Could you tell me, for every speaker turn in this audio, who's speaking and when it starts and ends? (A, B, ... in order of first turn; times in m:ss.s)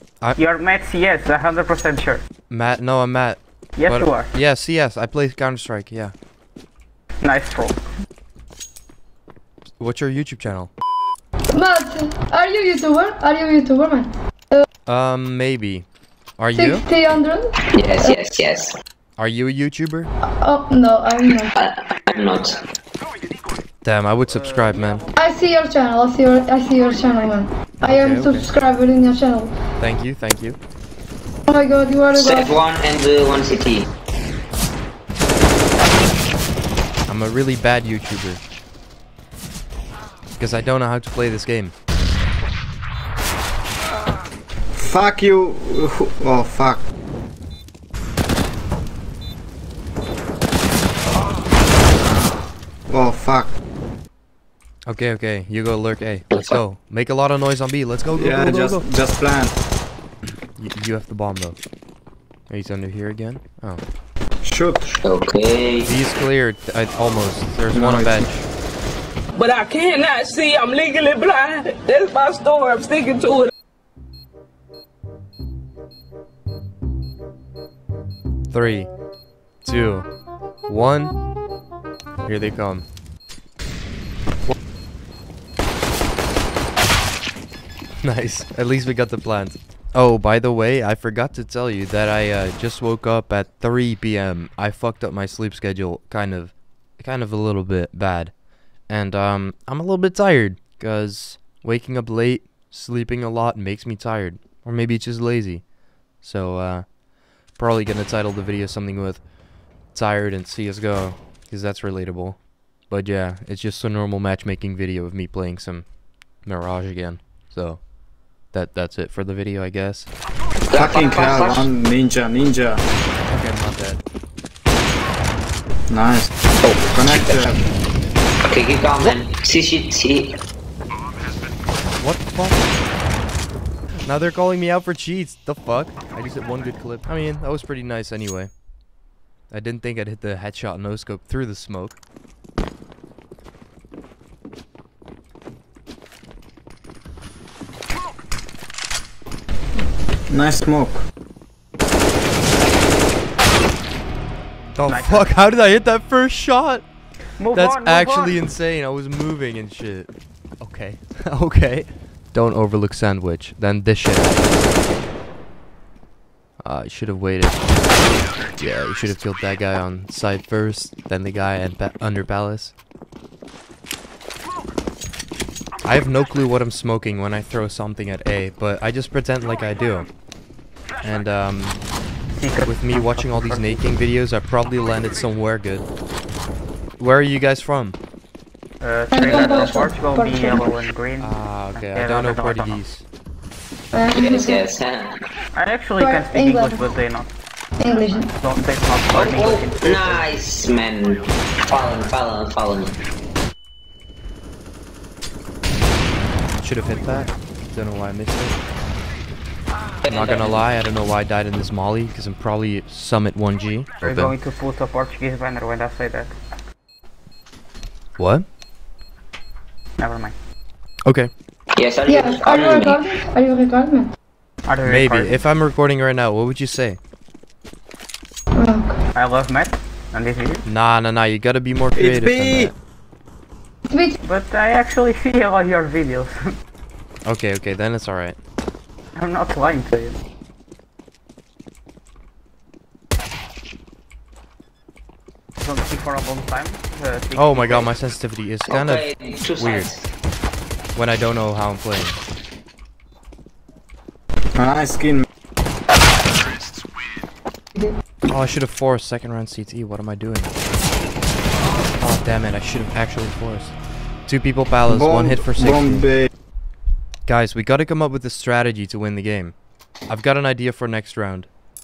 0:00.3-0:02.3 A
0:02.4-0:06.1 B
0:03.8-0:04.3 A
0:07.2-0:07.8 A
0:09.8-0:10.7 B
0:11.5-0:14.6 C
0:14.8-0:16.8 B
0:16.5-0:18.2 C
0:17.7-0:18.7 D
0:19.2-0:20.1 B
0:20.3-0:21.5 C
0:21.6-0:22.6 D
0:23.8-0:25.0 B
0:24.2-0:25.1 A
0:25.1-0:29.5 C
0:27.8-0:28.5 B
0:29.8-0:30.6 B
0:31.5-0:32.6 C
0:32.1-0:33.8 D
0:37.1-0:38.4 B
0:40.4-0:41.7 B
0:44.7-0:46.8 E
0:52.9-0:53.5 E
0:54.8-0:58.8 B
0:56.3-0:56.6 D
0:58.1-0:59.5 E
1:00.6-1:01.6 B
1:02.5-1:03.8 B
1:04.4-1:04.9 E
1:05.0-1:05.9 D
1:05.8-1:08.5 B
1:07.7-1:08.3 E
1:09.4-1:13.5 F
1:18.5-1:18.9 B
1:19.6-1:20.1 B
1:20.7-1:21.2 B
1:22.2-1:22.8 B
1:28.0-1:47.0 B
1:47.5-1:49.3 B
1:49.8-1:57.9 B
1:58.4-2:00.1 B
2:00.7-2:01.6 D
2:00.7-2:02.8 E
2:03.3-2:04.0 B
2:05.9-2:07.6 E
2:06.6-2:07.4 D
2:08.5-2:10.3 D
2:08.9-2:09.2 B
2:12.0-2:12.6 B
2:14.0-2:18.5 B
2:19.5-2:22.0 B
2:30.3-2:31.0 E
2:34.7-2:36.8 B
2:34.8-2:35.3 A
2:37.4-2:38.4 A
2:37.5-2:44.6 B
2:46.6-2:47.6 B
2:48.6-2:52.7 B
2:55.8-3:00.1 B
3:01.0-3:01.8 B
3:02.4-3:04.0 A
3:02.6-3:05.9 B
3:07.0-3:08.0 B
3:08.8-3:12.8 A
3:09.1-3:10.8 C
3:09.3-3:09.7 D
3:11.2-3:13.0 B
3:13.9-3:14.6 C
3:14.1-3:15.1 D
3:15.5-3:17.3 A
3:16.0-3:16.9 C
3:17.8-3:18.3 C
3:18.3-3:20.3 A
3:19.1-3:22.9 D
3:26.6-3:28.6 B
3:30.0-3:30.8 D
3:30.0-3:34.3 B
3:34.0-3:36.4 A
3:38.2-3:38.5 B
3:40.0-3:40.3 A
3:41.0-3:41.3 B
3:41.8-3:43.0 D
3:42.1-3:44.1 C
3:44.6-3:45.5 A
3:44.8-3:47.0 B
3:48.5-3:49.0 C
3:49.1-3:50.6 A
3:50.6-3:52.7 B
3:51.9-3:52.7 E
3:53.9-3:54.2 C
3:54.2-3:56.6 A
3:57.2-3:58.4 B
3:59.1-4:00.2 A
4:05.6-4:08.0 A
4:07.3-4:09.9 B
4:08.7-4:10.0 D
4:10.9-4:12.2 B
4:14.6-4:15.2 E
4:18.3-4:20.5 B
4:22.0-4:26.1 B
4:24.9-4:26.3 E
4:27.3-4:29.5 B
4:30.1-4:31.5 B